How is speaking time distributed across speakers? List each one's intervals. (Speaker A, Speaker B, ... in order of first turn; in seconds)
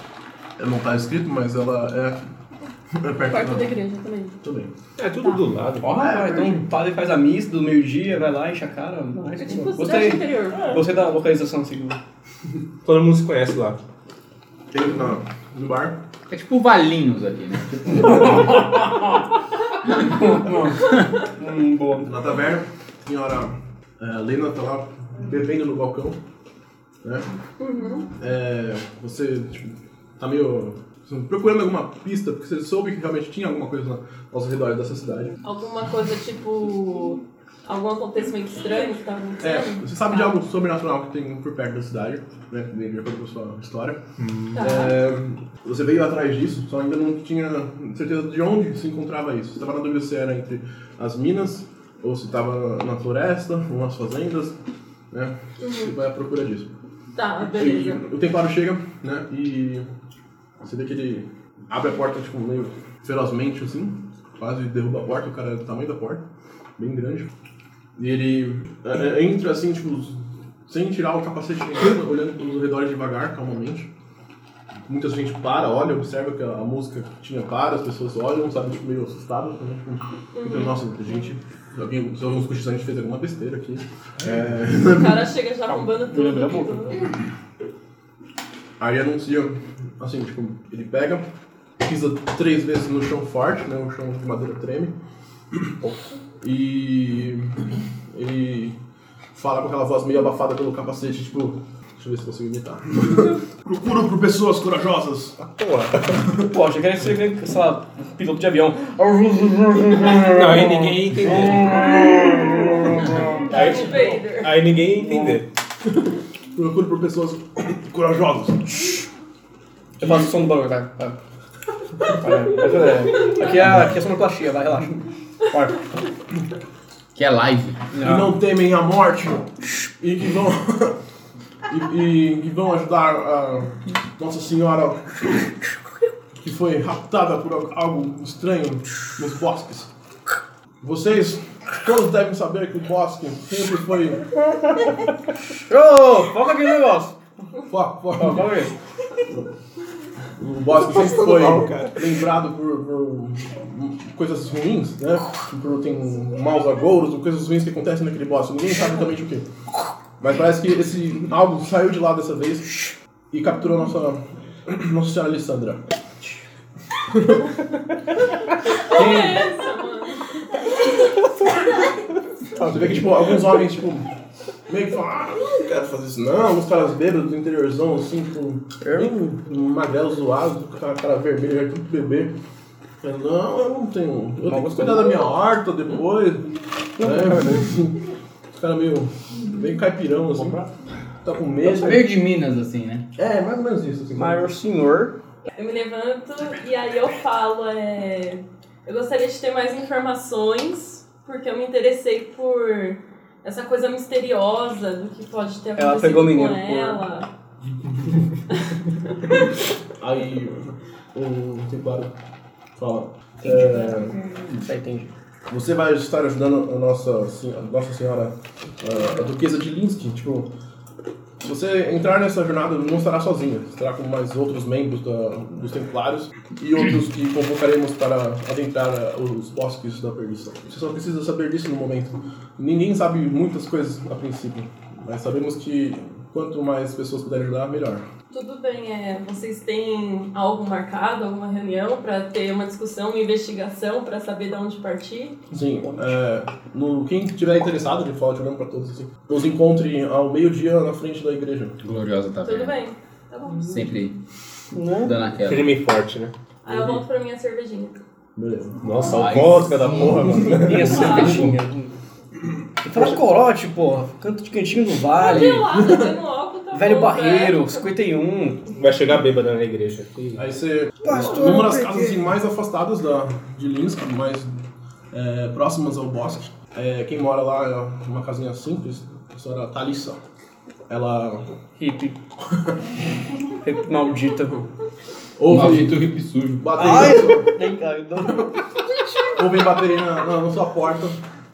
Speaker A: 0.6-2.2, 3.0-3.8, 4.4-4.7, 6.0-6.7, 14.7-16.0, 22.0-26.2, 27.0-27.3, 28.2-35.4, 39.4-44.0, 44.6-54.6, 55.1-56.7, 57.5-59.9, 60.6-66.2, 66.8-67.3, 68.0-70.2, 70.7-73.9, 74.9-85.3, 88.8-91.3, 91.8-95.0, 96.4-98.8, 99.3-105.4, 116.5-119.0, 120.0-120.3, 128.0-131.0, 131.7-135.3, 136.4-139.9, 140.8-144.3, 147.7-148.5, 150.4-159.5, 160.2-162.8, 163.3-165.8, 167.1-167.5, 172.6-174.1, 174.7-182.3, 183.0-188.0, 188.6-190.6, 191.2-192.1, 193.2-194.5, 210.0-212.1, 212.8-214.2, 215.5-220.5, 221.4-238.1, 245.5-251.8, 256.7-257.0, 258.4-258.8, 265.3-266.1, 270.4-274.6, 275.1-280.2, 280.9-281.5, 285.4-286.0, 286.6-287.5, 289.4-291.2
Speaker B: 3.3-4.4, 9.4-10.9, 27.6-28.1, 35.4-40.4, 44.5-45.0, 55.6-55.9, 57.1-58.0, 80.3-81.2, 84.8-87.1, 113.5-114.6, 168.7-170.3, 195.6-207.3, 238.3-245.4, 252.4-253.8, 256.6-258.0, 260.7-261.4, 265.1-267.9
Speaker C: 5.0-6.0, 12.8-13.8, 44.2-44.6, 105.4-106.2, 110.2-112.0, 113.5-115.5, 150.8-152.1, 172.5-173.3, 255.4-256.3, 258.8-261.4, 268.7-270.5
Speaker D: 5.8-12.0, 18.1-19.2, 20.0-22.1, 85.7-87.0, 106.4-114.2, 114.9-115.4, 120.0-121.2, 122.0-125.8, 127.9-128.3, 145.7-147.2, 148.2-148.7, 168.9-169.4, 178.8-179.2, 184.5-185.2, 187.0-187.8, 190.4-190.7, 194.1-195.2, 205.8-207.1, 213.4-215.1, 245.8-246.1, 254.7-255.2, 260.4-261.9, 262.8-265.8, 266.7-268.7, 271.0-272.3, 281.8-282.2, 283.6-284.7, 286.8-288.5
Speaker E: 16.3-18.8, 127.2-127.8, 191.7-193.1, 251.8-252.8, 253.7-254.2, 255.0-255.7, 259.1-260.3, 261.0-261.4, 285.5-287.1